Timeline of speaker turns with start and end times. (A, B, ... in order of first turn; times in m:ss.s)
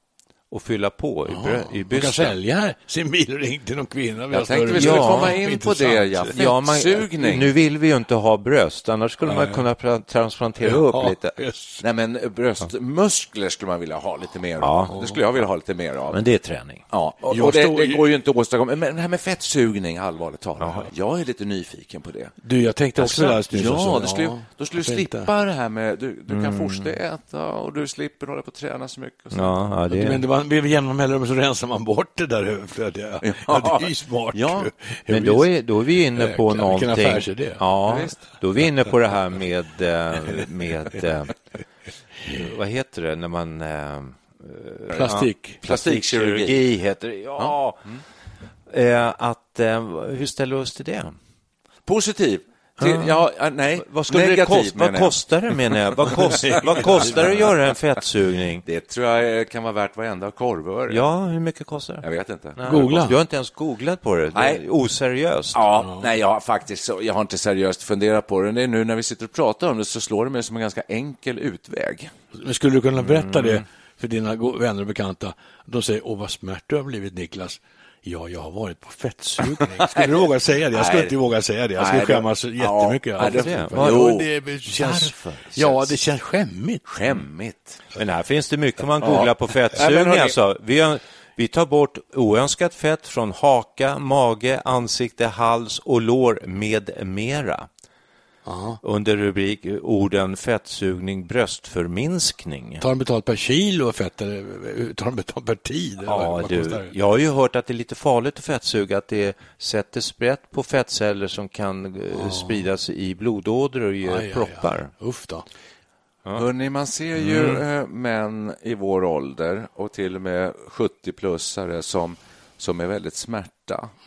0:00.5-0:02.4 A
0:01.3-0:06.4 B
0:04.3-0:07.5 C
0:04.7-0:05.4 A
0:06.3-0:11.4 A
0:09.2-0:09.6 B
0:10.6-0:11.8 B
0:11.8-0:16.2 C
0:14.6-0:15.4 A
0:14.9-0:15.2 B
0:16.1-0:16.8 A
0:16.9-0:22.3 C
0:17.3-0:18.1 B
0:20.6-0:20.9 A
0:22.4-0:25.3 B
0:23.0-0:29.5 C
0:26.3-0:26.9 A
0:29.3-0:30.2 A
0:29.9-0:35.5 B
0:33.2-0:34.7 C
0:35.1-0:41.3 A
0:36.1-0:37.6 B
0:37.8-0:38.2 C
0:42.3-0:47.8 A
0:44.9-0:45.6 B
0:45.6-0:46.6 C
0:47.4-0:48.0 C
0:48.7-0:51.1 A
0:51.8-0:57.5 C
0:52.8-0:53.2 A
0:53.8-0:58.6 A
0:58.6-1:01.0 C
1:00.9-1:05.6 A
1:02.0-1:02.9 C
1:02.6-1:03.2 B
1:04.3-1:04.6 C
1:05.5-1:12.1 C
1:05.8-1:06.1 B
1:12.3-1:26.8 B
1:13.0-1:13.6 A
1:19.8-1:20.1 C
1:20.7-1:21.1 C
1:21.8-1:24.3 C
1:23.2-1:25.9 A
1:26.8-1:27.8 C
1:27.9-1:37.7 A
1:29.0-1:30.4 C
1:38.4-1:38.8 B
1:38.8-1:42.8 A
1:42.8-1:46.9 B
1:46.0-1:54.9 A
1:52.1-1:52.6 B
1:54.0-1:55.4 B
1:56.3-2:03.9 C
1:57.2-1:57.6 A